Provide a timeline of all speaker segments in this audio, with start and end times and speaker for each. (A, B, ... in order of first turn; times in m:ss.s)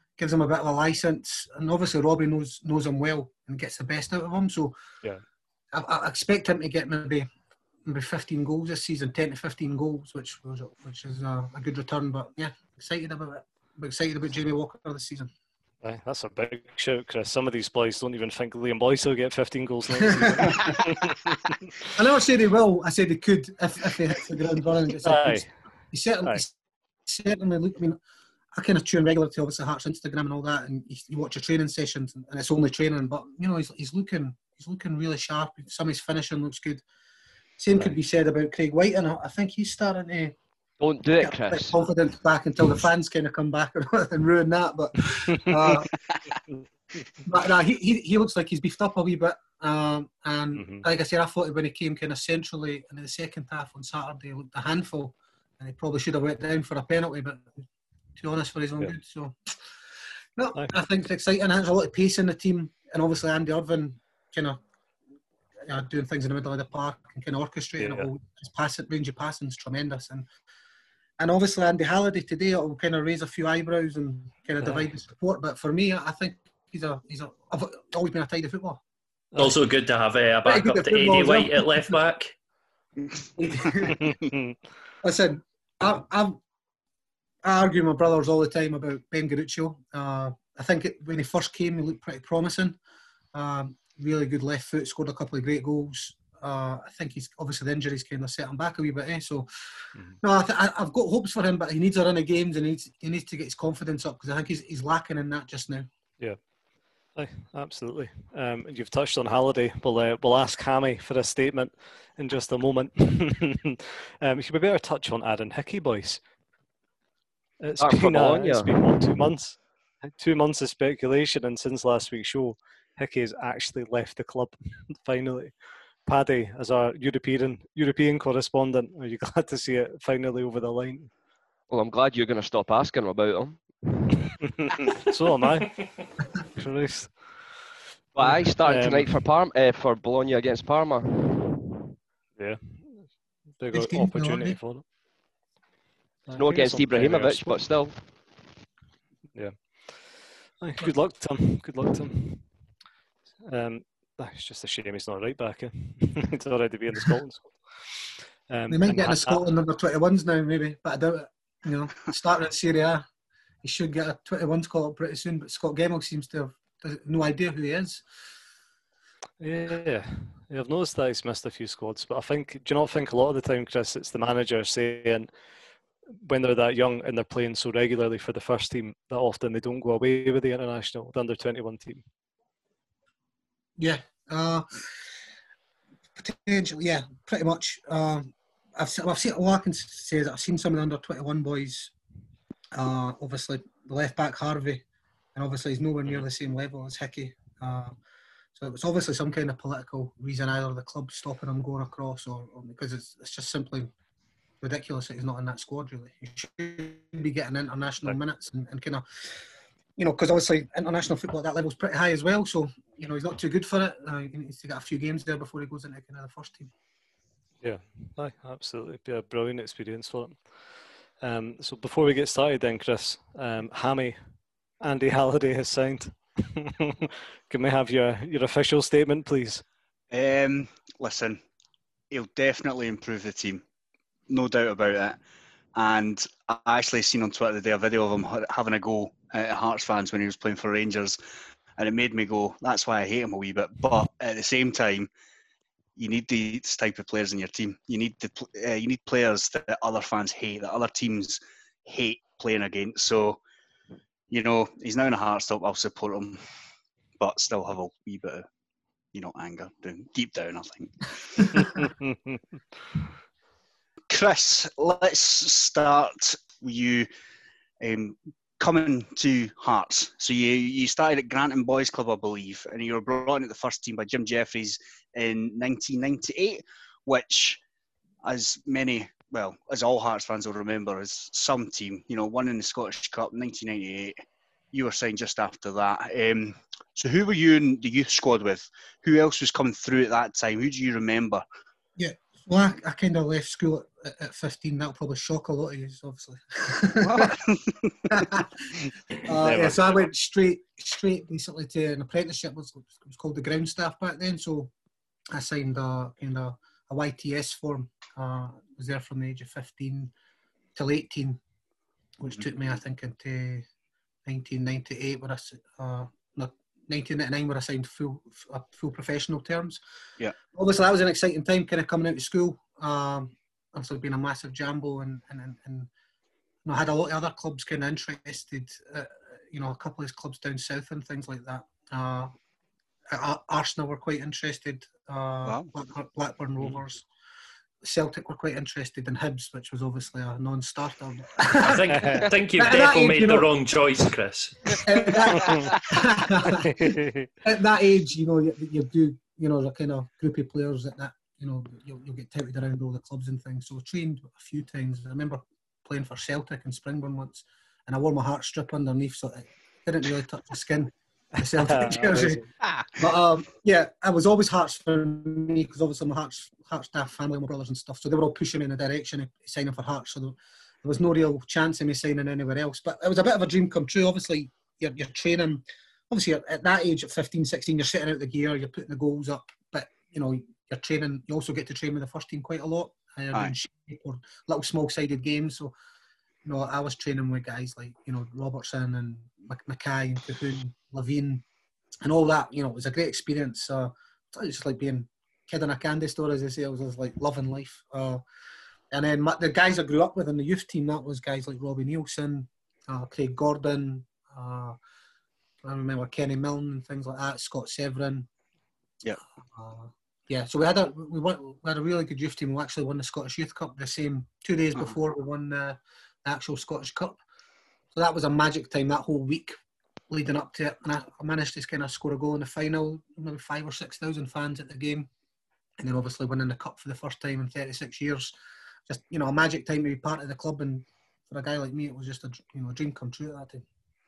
0:00.2-0:04.7 A
0:05.7-0:07.3 A
0:07.8-0:15.3 A
0:15.8-0:21.7 B
0:20.4-0:20.8 A
0:21.9-0:26.5 A
0:25.0-0:25.5 B
0:27.1-0:28.0 A
0:28.5-0:36.8 A
0:37.6-0:40.3 A
0:40.8-0:41.8 C
0:41.2-0:45.9 A
0:45.3-0:45.6 B
0:46.4-0:47.2 B
0:47.2-0:57.5 A
0:50.6-0:50.8 B
0:58.2-0:59.6 A
1:00.4-1:04.6 A
1:05.7-1:10.3 A
1:07.8-1:08.1 B
1:11.2-1:18.8 A
1:14.6-1:14.9 B
1:19.4-1:22.3 D
1:20.4-1:22.0 A
1:23.4-1:24.1 A
1:24.0-1:24.5 B
1:25.0-1:26.4 A
1:27.4-1:32.8 A
1:33.3-1:39.5 A
1:40.2-1:45.9 A
1:47.1-1:56.2 B
1:57.6-2:05.5 B
1:57.8-1:58.9 C
2:06.0-2:11.1 B
2:11.7-2:13.6 C
2:14.4-2:17.6 B
2:18.1-2:21.6 C
2:18.2-2:19.2 B
2:22.4-2:24.8 B
2:23.7-2:24.6 A
2:26.3-2:27.8 B
2:26.3-2:28.0 C
2:29.3-2:32.5 B
2:33.4-2:39.4 B
2:38.7-2:43.0 A
2:43.6-2:48.0 A
2:49.4-2:55.3 B
2:56.2-3:02.0 B
3:03.8-3:04.6 A
3:06.2-3:11.9 A
3:12.7-3:14.8 A
3:15.3-3:17.9 A
3:18.5-3:23.9 A
3:24.6-3:29.0 A
3:30.0-3:36.7 A
3:37.6-3:44.2 B
3:44.8-3:49.6 B
3:50.1-3:51.4 E
3:52.1-3:53.6 E
3:54.3-3:55.2 E
3:55.7-4:01.2 E
4:01.8-4:05.1 E
4:06.0-4:13.4 E
4:14.3-4:16.4 E
4:17.2-4:18.4 E
4:19.1-4:21.8 E
4:21.7-4:22.4 B
4:24.1-4:27.1 E
4:27.8-4:37.6 E
4:38.2-4:44.2 E
4:44.7-4:51.4 E
4:52.0-4:57.4 A
4:57.0-4:57.9 E
4:58.1-4:58.6 A
4:59.2-5:04.7 A
4:59.3-5:00.0 B
5:05.3-5:10.1 A
5:10.7-5:11.4 A
5:12.2-5:13.6 A
5:14.2-5:19.8 A
5:20.5-5:25.9 A
5:26.6-5:32.3 A
5:33.1-5:37.0 A
5:37.8-5:43.5 A
5:41.6-5:44.8 D
5:41.9-5:42.2 B
5:44.8-6:02.4 A
5:46.5-5:47.3 B
6:01.6-6:02.4 B
6:03.0-6:25.7 A
6:26.4-6:31.4 A
6:32.0-6:38.2 A
6:38.9-6:44.8 A
6:45.6-6:48.3 A
6:49.5-6:57.2 A
6:57.9-6:59.6 A
7:00.1-7:05.1 A
7:05.8-7:08.3 A
7:08.9-7:13.6 A